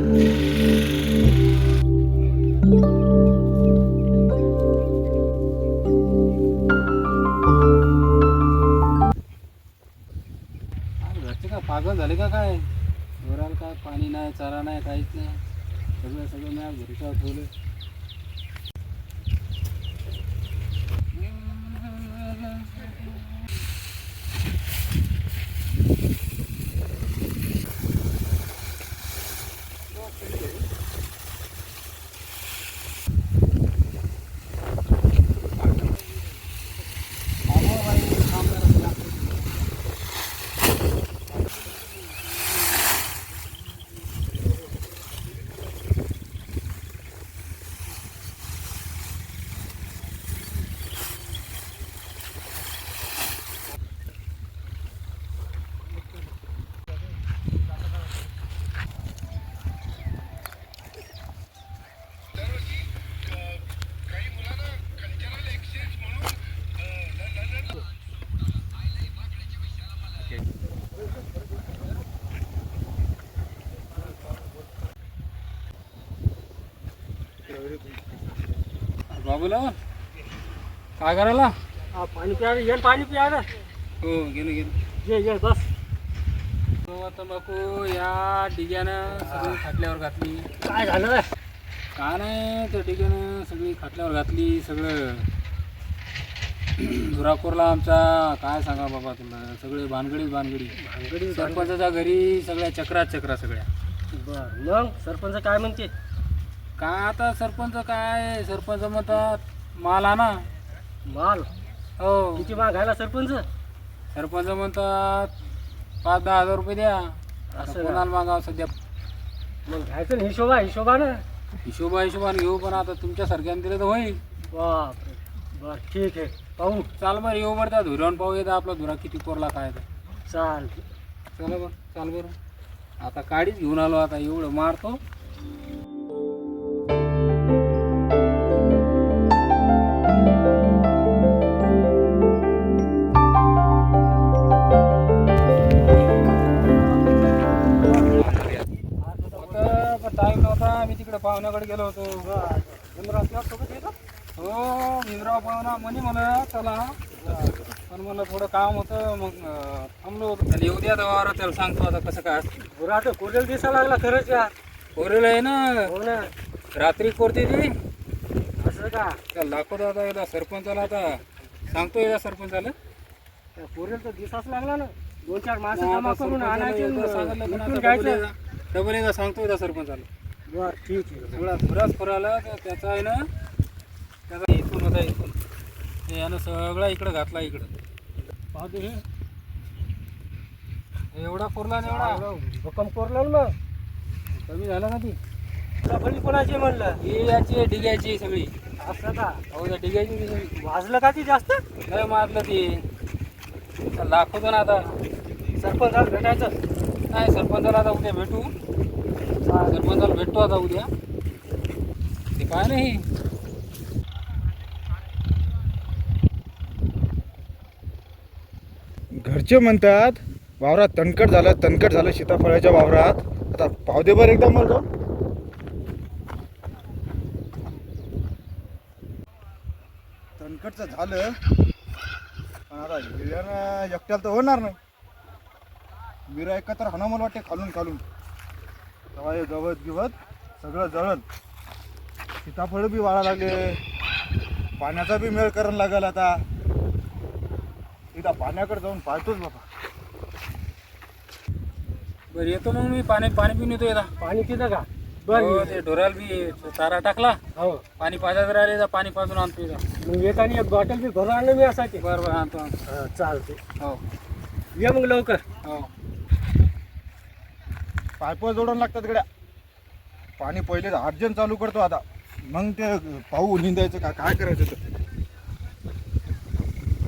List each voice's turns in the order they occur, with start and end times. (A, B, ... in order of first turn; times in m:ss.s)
0:11.0-0:12.6 A
0:13.2-0:15.4 A
0:16.0-0:17.5 A
0:21.1-0:23.3 A
0:30.2-0:30.5 A
0:37.5-0:39.3 A
1:17.5-1:18.0 B
1:19.1-1:19.8 A
1:21.0-1:21.5 A
1:21.9-1:23.5 C
1:24.0-1:24.7 A
1:25.0-1:25.7 C
1:26.9-1:30.5 A
1:29.2-1:29.6 C
1:30.6-1:31.3 C
1:32.0-1:35.3 A
1:36.8-1:40.8 A
1:40.7-1:41.7 C
1:41.3-1:43.7 A
1:44.1-1:45.9 C
1:46.8-1:50.4 A
1:51.0-1:51.5 C
1:52.0-1:52.5 A
1:52.3-1:53.4 C
1:54.1-1:55.3 A
1:56.0-1:58.7 A
1:57.5-1:58.0 C
1:59.6-2:01.2 C
2:01.6-2:04.2 A
2:04.5-2:06.9 C
2:07.0-2:09.8 A
2:10.3-2:10.8 C
2:11.4-2:12.3 A
2:13.0-2:15.0 A
2:27.2-2:29.8 C
2:29.4-2:32.2 A
2:32.2-2:33.9 C
2:34.4-2:37.0 A
2:37.2-2:37.5 C
2:37.9-2:42.5 A
2:42.7-2:44.5 C
2:44.9-2:45.8 A
2:45.8-2:46.3 C
2:46.7-2:47.7 A
2:48.6-2:49.2 C
2:49.3-2:52.7 A
2:53.6-2:58.2 C
2:55.7-3:00.1 A
3:00.5-3:01.6 C
3:01.3-3:03.2 A
3:04.3-3:05.3 A
3:06.1-3:07.7 A
3:08.5-3:09.0 C
3:11.1-3:12.2 A
3:11.9-3:13.5 C
3:14.3-3:15.2 A
3:15.8-3:17.0 C
3:17.0-3:18.5 A
3:18.8-3:19.4 C
3:19.5-3:20.5 A
3:20.6-3:21.6 C
3:21.8-3:22.8 A
3:23.9-3:24.9 A
3:25.6-3:26.6 C
3:27.1-3:28.5 A
3:29.4-3:29.8 C
3:29.7-3:30.9 A
3:32.4-3:33.0 A
3:39.1-3:44.8 B
3:50.4-3:51.4 B
3:52.7-3:54.8 B
3:56.3-3:58.0 B
3:59.2-4:01.2 B
4:02.4-4:03.8 B
4:04.8-4:06.4 B
4:08.1-4:09.6 B
4:12.3-4:14.1 A
4:14.2-4:15.8 C
4:15.3-4:17.4 A
4:17.6-4:17.8 C
4:18.0-4:19.8 A
4:20.0-4:22.0 C
4:22.0-4:22.8 A
4:22.9-4:23.6 C
4:24.8-4:25.4 C
4:25.6-4:25.9 A
4:28.2-4:29.2 B
4:30.4-4:34.8 B